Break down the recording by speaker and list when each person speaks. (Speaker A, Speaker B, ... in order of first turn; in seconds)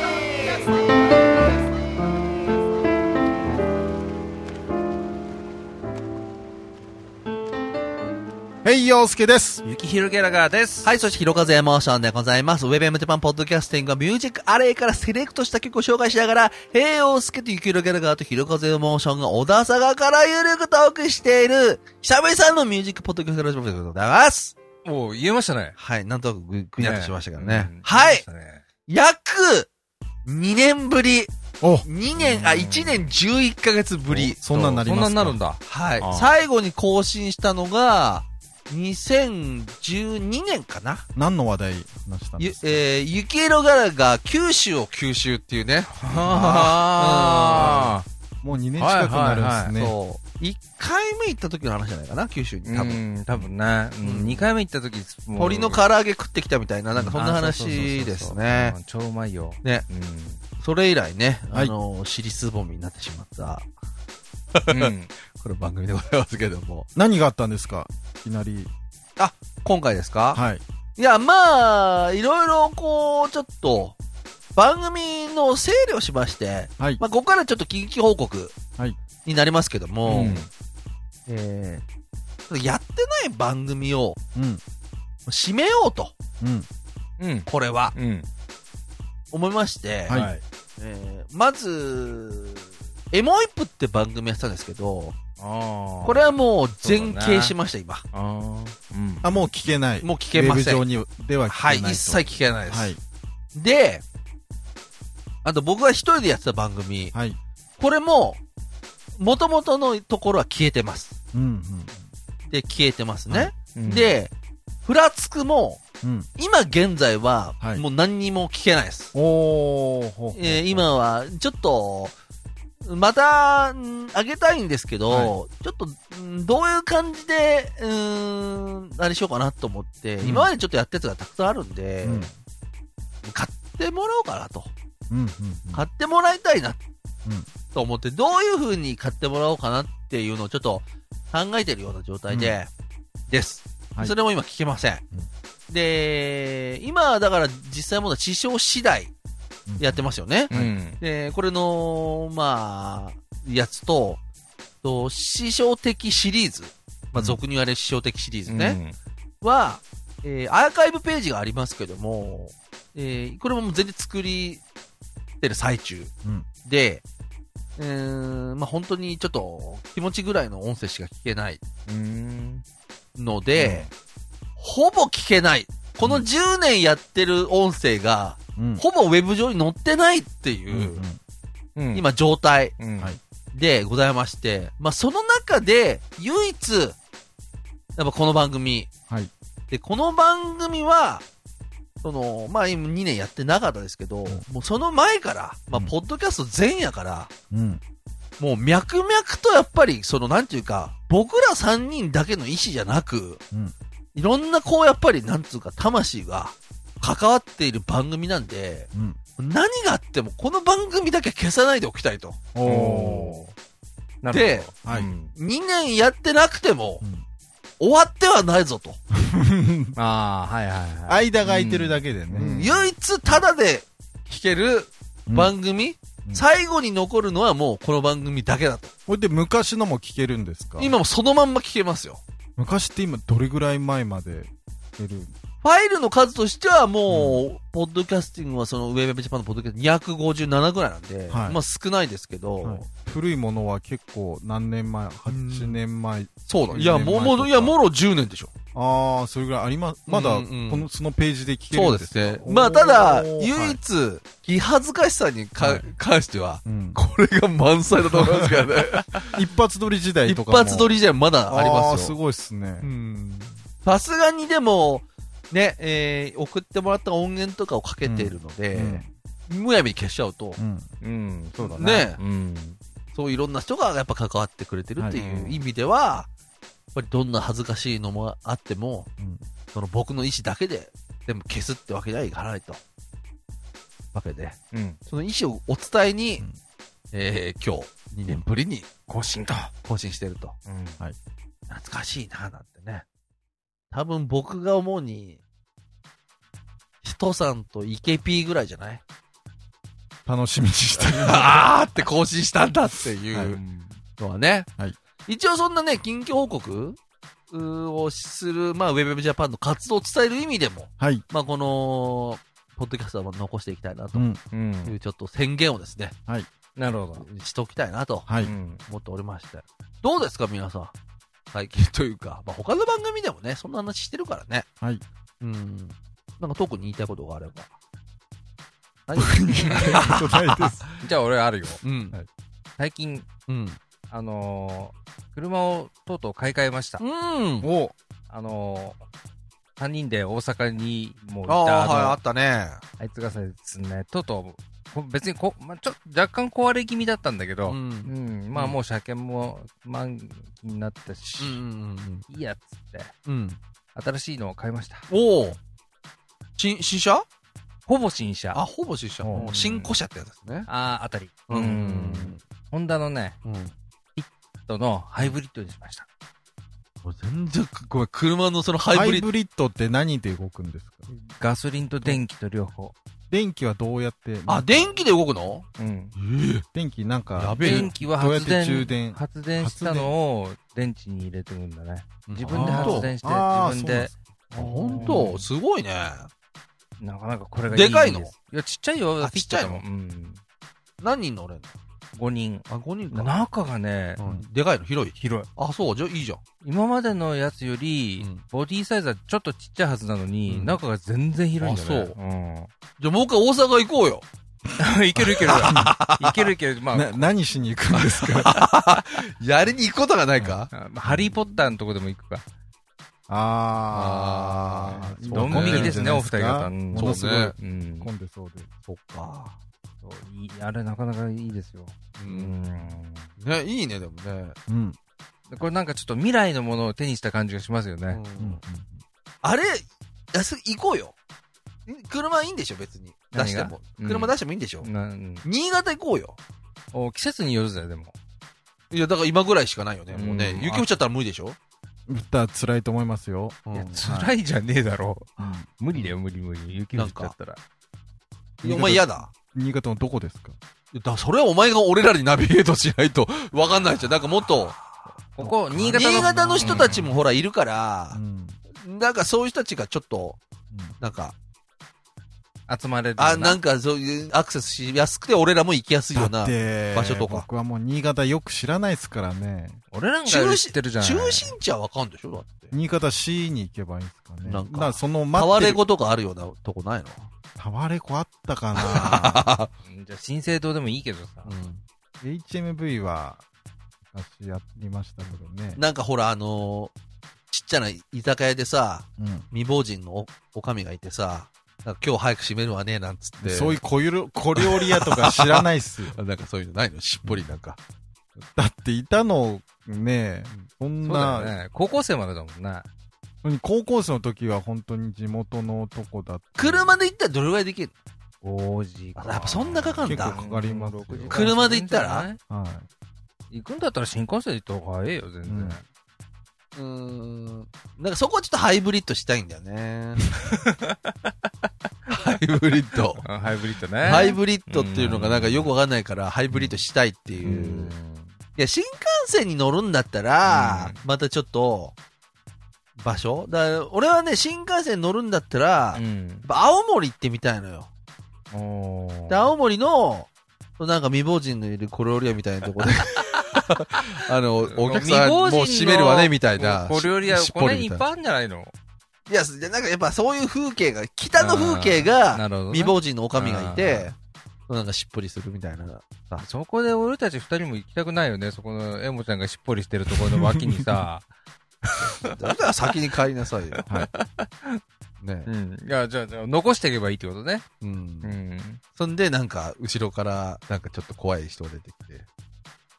Speaker A: 8.6-9.6, 31.6-31.9, 34.1-35.4, 41.1-42.8, 48.4-49.9, 56.9-57.2, 66.9-68.7, 70.3-70.6, 84.3-84.6, 86.4-86.7, 90.1-90.3, 99.2-103.0, 107.1-107.4, 111.3-112.0, 116.0-116.3, 119.1-120.8, 125.1-125.3, 130.2-130.5, 132.0-132.3, 135.1-135.8, 142.3-142.5, 149.7-150.7, 173.5-173.9, 178.6-178.8, 180.7-181.2, 197.5-197.8, 208.9-209.2, 212.5-213.4, 214.8-215.1, 219.1-219.9, 221.1-223.4, 225.3-225.5, 229.1-230.9, 232.6-235.3, 237.1-237.4, 241.3-241.6, 242.6-247.7, 248.7-253.8, 255.6-255.9, 256.6-257.0, 258.0-258.6, 259.3-260.9, 261.5-262.9, 268.0-269.1, 270.6-270.9, 300.2-301.7, 311.0-311.2, 314.1-314.4, 318.3-318.5, 329.2-330.8, 337.6-337.9, 359.3-359.6, 368.9-371.1, 373.3-374.9, 376.7-380.1, 382.5-385.3, 405.2-405.9, 406.9-408.6, 410.4-411.4, 413.3-418.7, 424.7-425.0, 428.4-429.0, 442.1-444.3, 445.4-445.6, 448.6-450.6, 455.4-457.1, 458.1-458.6, 466.1-469.8, 472.7-475.8, 477.6-479.4, 482.2-483.4, 484.1-485.8, 489.2-489.5, 493.4-496.2, 498.5-501.5, 503.4-506.9, 510.1-511.5, 512.5-512.9, 515.5-515.8, 560.3-561.0
Speaker B: 9.6-10.9, 24.8-25.8, 26.8-28.6, 32.1-33.1, 34.4-36.4, 45.9-48.0, 48.8-49.7, 52.6-55.8, 57.1-60.4, 64.7-65.1, 80.0-80.5, 87.2-88.3, 90.1-90.4, 95.4-97.5, 98.1-99.5, 113.7-114.2, 150.5-151.0, 158.5-158.9, 171.9-172.6, 181.8-182.1, 182.8-183.1, 212.6-213.5, 214.2-215.3, 219.9-222.7, 271.0-272.8, 275.2-275.5, 284.7-285.0, 289.1-289.7, 290.6-291.0, 303.5-304.0, 314.5-314.9, 316.8-317.2, 318.4-318.8, 329.7-330.1, 331.0-331.8, 332.8-333.3, 334.1-337.0, 338.3-339.0, 339.8-342.2, 343.0-351.6, 352.3-353.1, 353.9-355.1, 357.9-358.6, 359.2-359.9, 360.7-363.4, 364.1-366.1, 371.1-372.9, 375.8-376.1, 377.6-384.1, 384.7-385.4, 387.0-390.4, 392.1-394.2, 395.2-395.5, 396.6-402.7, 404.8-407.3, 410.7-412.4, 415.3-418.1, 420.0-423.3, 425.5-428.2, 433.3-435.4, 436.9-438.1, 440.1-440.9, 443.7-447.6, 455.3-457.1, 462.7-463.6, 469.9-471.5, 479.8-481.5, 501.0-502.9, 508.4-512.4, 513.5-515.8, 520.4-521.3, 523.2-525.7, 527.4-528.3, 530.5-531.0, 535.9-536.5, 538.5-539.5, 543.2-543.5, 544.7-548.7, 551.4-554.1, 556.4-561.2, 563.8-564.8, 565.5-567.6, 568.2-568.8
Speaker C: 10.8-24.6, 25.8-28.2, 28.9-29.7, 30.2-31.3, 31.8-34.4, 35.6-41.0, 42.4-47.9, 49.8-53.0, 54.0-54.5, 55.4-58.8, 60.6-63.7, 64.5-66.9, 69.2-70.4, 71.0-74.0, 74.5-78.6, 79.2-80.5, 81.3-81.8, 82.5-84.2, 85.2-86.1, 87.5-87.9, 89.3-90.2, 90.8-95.2, 96.0-98.0, 100.0-100.8, 101.5-103.0, 103.5-104.0, 105.4-107.1, 107.8-108.4, 109.2-111.2, 112.5-114.3, 114.8-115.8, 116.4-119.1, 120.3-122.1, 122.8-132.3, 133.2-134.7, 135.7-136.8, 137.7-142.7, 143.3-145.0, 145.7-149.1, 149.8-154.2, 154.8-158.8, 159.4-164.6, 165.4-166.1, 166.6-167.0, 167.8-171.6, 173.2-173.9, 174.6-181.0, 181.9-182.7, 183.5-187.0, 188.0-188.9, 189.7-191.2, 192.0-197.3, 198.4-203.4, 204.1-212.4, 214.3-214.7, 215.3-217.0, 217.8-219.0, 222.3-228.9, 230.8-232.2, 235.6-242.8, 245.3-245.8, 246.4-248.5, 250.1-250.9, 251.7-259.4, 260.2-262.2, 262.8-270.6, 271.6-272.2, 273.1-276.3, 276.9-279.1, 279.7-282.8, 284.1-286.4, 287.1-288.9, 289.8-290.6, 291.7-293.0, 293.9-295.4, 297.0-299.0, 301.2-303.6, 304.2-304.7, 305.2-307.0, 307.5-314.3, 314.8-316.1, 317.2-318.3, 318.9-320.9, 321.5-324.6, 325.4-327.7, 329.1-330.7, 331.8-332.1, 333.5-333.8, 337.0-337.7, 341.5-342.8, 347.7-348.8, 351.4-352.2, 353.2-353.6, 355.1-355.6, 356.6-357.2, 358.5-360.7, 361.5-362.4, 363.4-363.7, 367.0-369.3, 374.5-376.6, 377.4-377.9, 382.3-383.1, 384.5-386.3, 387.7-388.3, 389.2-389.8, 391.0-391.7, 392.7-393.3, 394.2-396.4, 400.5-400.8, 401.6-402.1, 403.0-404.2, 405.4-406.5, 407.9-410.7, 413.9-416.0, 416.9-417.5, 418.9-419.6, 422.2-424.6, 428.1-428.6, 429.4-431.1, 431.9-434.9, 435.4-436.4, 438.9-441.6, 443.7-444.0, 446.9-447.3, 448.6-449.3, 450.9-454.8, 455.9-458.2, 458.8-460.4, 461.0-461.3, 463.2-467.4, 470.2-472.7, 474.4-477.3, 478.8-479.7, 481.4-481.8, 485.7-486.9, 487.5-493.8, 494.6-497.8, 506.6-507.9, 509.1-510.4, 511.3-512.3, 516.8-520.2, 522.1-523.2, 524.0-527.9, 528.5-531.9, 533.0-537.9, 539.3-548.0, 549.3-554.1, 554.7-556.5, 562.2-563.8, 565.2-565.5, 567.8-568.3, 569.0-572.2